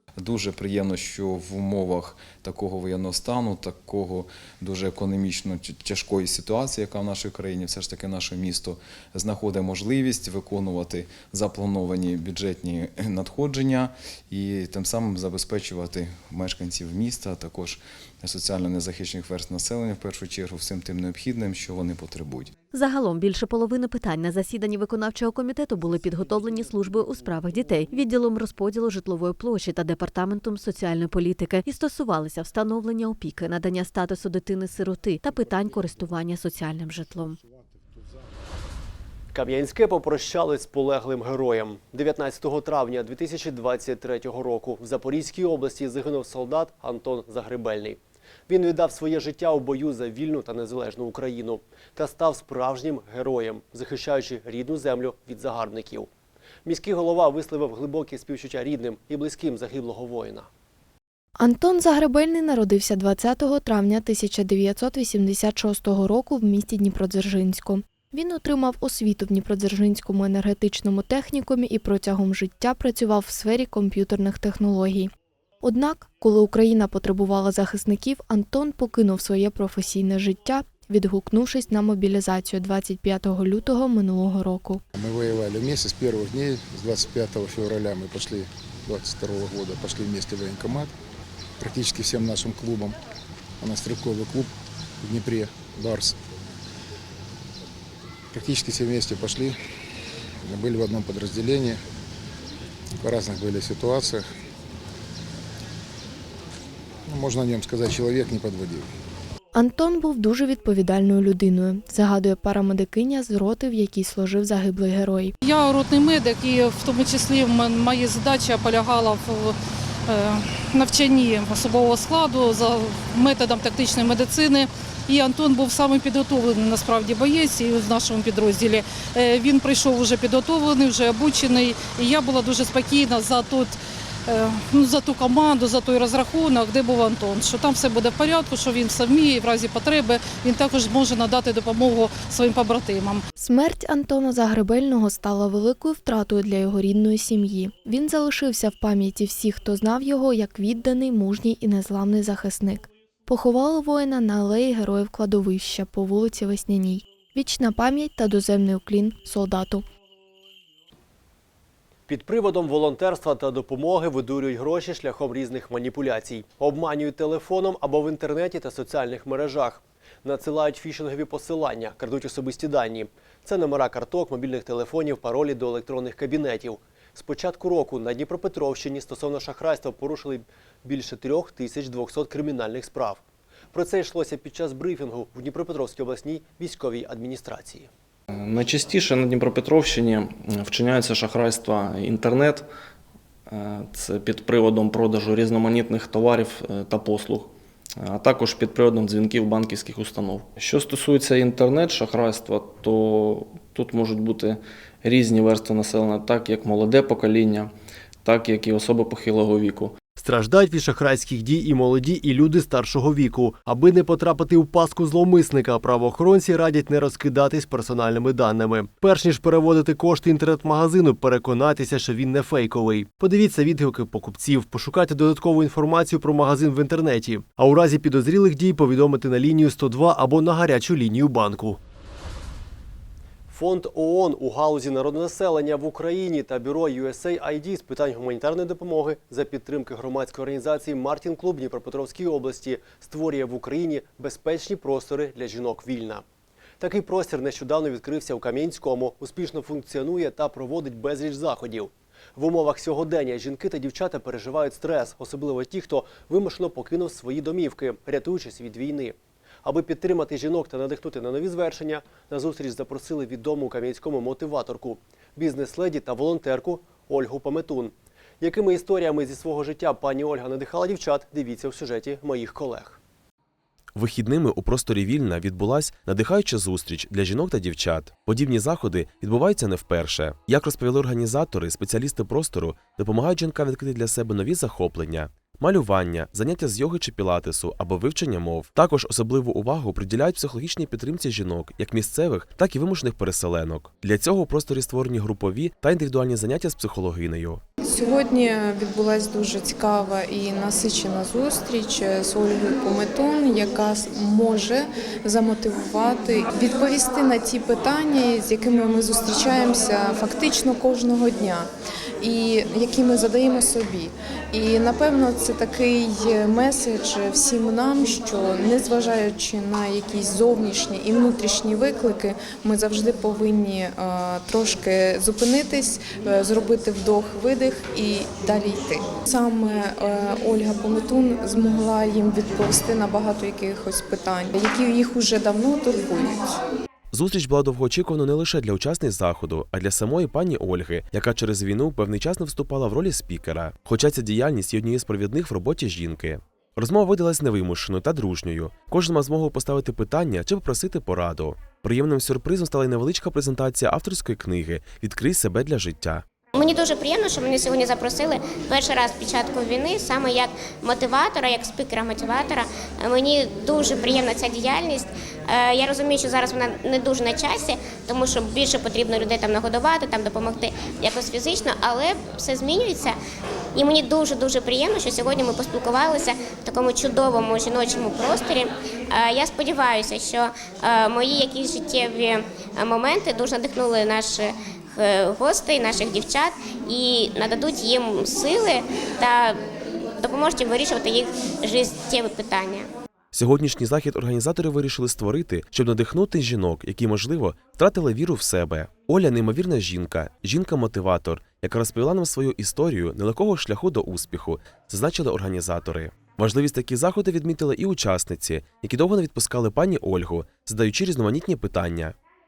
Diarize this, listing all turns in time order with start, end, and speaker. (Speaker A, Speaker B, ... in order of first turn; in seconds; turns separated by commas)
Speaker A: 0.2-22.5, Speaker B: 22.7-37.4, Speaker C: 39.3-56.1, Speaker C: 56.6-60.5, Speaker D: 61.4-75.1, Speaker D: 75.6-84.8, Speaker E: 85.0-90.9, Speaker E: 91.6-93.0, Speaker E: 93.6-96.2, Speaker E: 98.3-99.6, Speaker E: 100.4-101.8, Speaker E: 103.0-104.3, Speaker E: 107.1-108.9, Speaker D: 109.5-115.3, Speaker F: 115.4-119.6, Speaker F: 120.1-133.8, Speaker F: 134.3-143.2, Speaker D: 143.4-159.8, Speaker C: 162.1-183.2, Speaker C: 183.7-187.9, Speaker G: 188.4-192.7, Speaker G: 193.5-197.5, Speaker G: 198.0-207.7, Speaker G: 208.2-209.9, Speaker C: 210.2-231.8, Speaker C: 233.5-246.2, Speaker C: 246.8-273.0, Speaker H: 273.9-297.6, Speaker I: 297.9-311.7, Speaker I: 312.2-336.5, Speaker H: 337.1-356.2, Speaker J: 356.6-373.2, Speaker J: 373.8-389.6, Speaker J: 390.2-392.9, Speaker H: 393.3-412.1